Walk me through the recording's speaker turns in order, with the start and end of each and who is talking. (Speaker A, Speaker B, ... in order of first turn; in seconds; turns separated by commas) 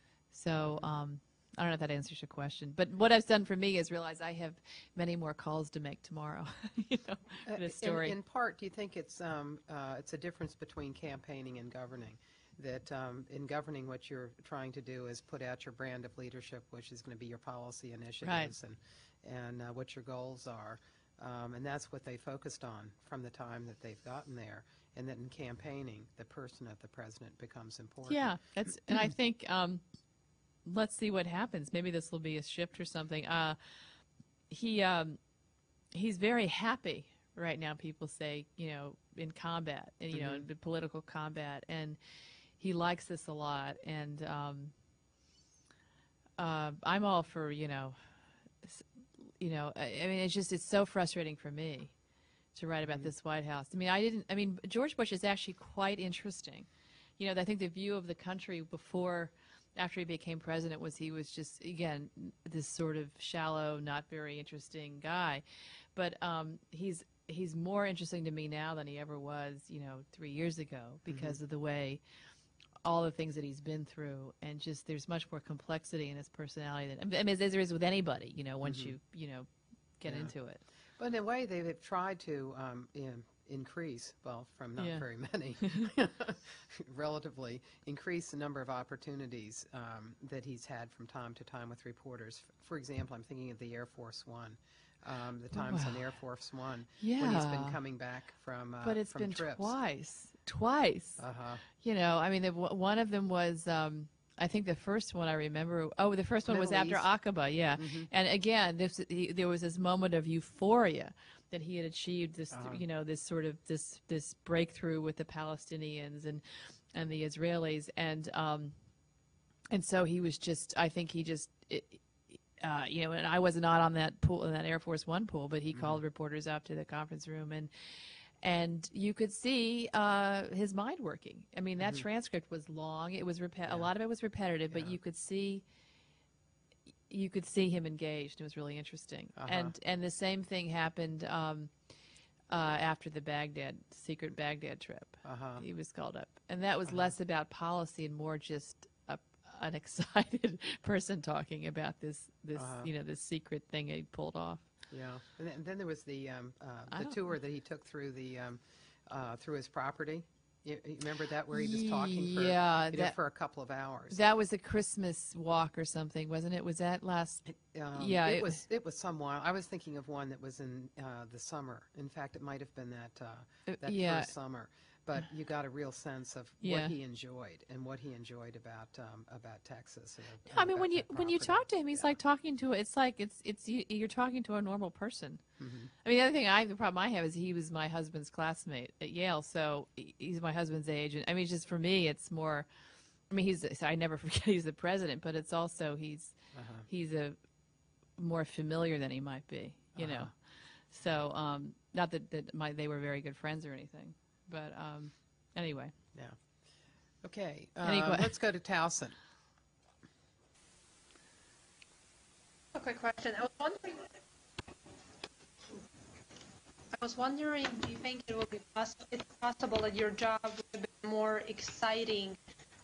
Speaker A: 0.3-8.2, Speaker B: 0.6-0.9, Speaker B: 7.5-28.3, Speaker A: 18.2-18.5, Speaker A: 28.1-29.8, Speaker A: 30.6-33.6, Speaker A: 34.5-35.2, Speaker A: 35.9-42.0, Speaker B: 40.1-40.4, Speaker A: 42.6-44.7, Speaker A: 46.4-48.0, Speaker A: 49.4-51.9, Speaker A: 52.5-56.7, Speaker A: 57.2-65.4, Speaker A: 65.9-72.0, Speaker B: 71.0-71.4, Speaker A: 72.8-79.5, Speaker B: 78.6-78.9, Speaker A: 80.0-80.6, Speaker B: 80.1-80.3, Speaker B: 81.0-99.7, Speaker A: 84.8-85.0, Speaker A: 95.5-96.0, Speaker A: 97.0-97.8, Speaker A: 98.8-101.2, Speaker B: 101.2-101.6, Speaker A: 101.7-118.7, Speaker B: 106.4-107.1, Speaker B: 107.8-108.1, Speaker B: 112.5-112.8, Speaker A: 119.7-127.7, Speaker B: 125.7-126.0, Speaker A: 128.4-135.6, Speaker A: 137.1-141.7, Speaker B: 139.4-139.7, Speaker A: 142.5-154.6, Speaker B: 145.2-145.6, Speaker B: 152.6-152.9, Speaker B: 154.9-164.2, Speaker A: 161.5-163.2, Speaker A: 164.1-167.4, Speaker B: 167.4-182.1, Speaker A: 167.9-168.6, Speaker A: 173.7-174.3, Speaker A: 176.6-176.9, Speaker A: 180.5-185.4, Speaker B: 185.6-185.9, Speaker A: 186.0-192.7, Speaker A: 193.3-196.3, Speaker B: 196.5-196.8, Speaker A: 196.9-197.4, Speaker A: 198.2-200.3, Speaker B: 199.9-200.3, Speaker A: 200.9-205.9, Speaker B: 207.2-209.1, Speaker A: 207.8-208.3, Speaker C: 212.7-214.2, Speaker C: 216.9-222.4